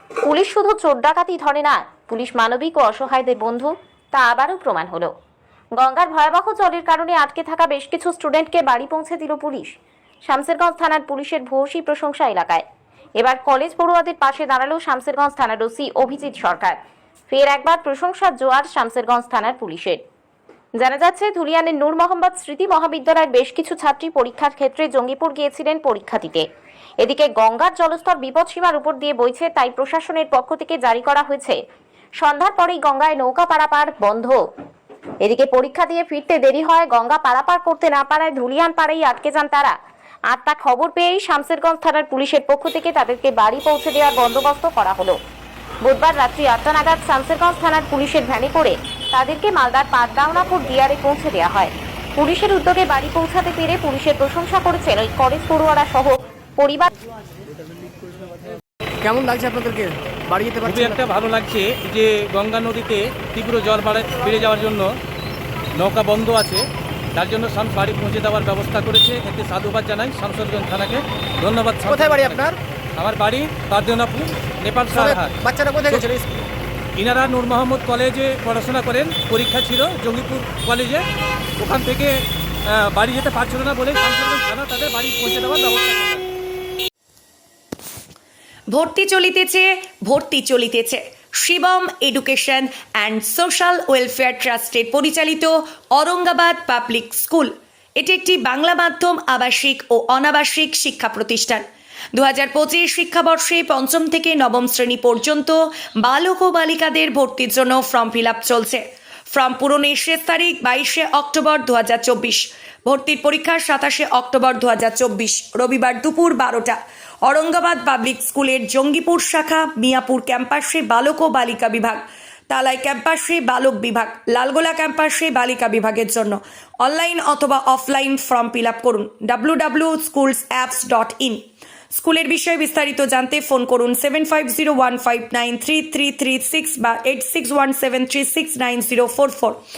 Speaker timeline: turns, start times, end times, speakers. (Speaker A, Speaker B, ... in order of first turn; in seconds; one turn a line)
Speaker A: 0.2-5.1
Speaker A: 5.8-12.6
Speaker A: 13.2-16.8
Speaker A: 17.3-20.0
Speaker A: 20.8-26.4
Speaker A: 27.0-31.6
Speaker A: 32.2-34.4
Speaker A: 35.2-39.8
Speaker A: 40.3-45.2
Speaker A: 45.8-56.9
Speaker B: 59.0-61.0
Speaker C: 60.6-64.9
Speaker C: 65.8-66.6
Speaker C: 67.1-76.1
Speaker B: 71.9-72.5
Speaker B: 74.9-76.4
Speaker C: 77.0-81.0
Speaker C: 81.6-86.2
Speaker D: 88.7-101.6
Speaker D: 102.1-139.6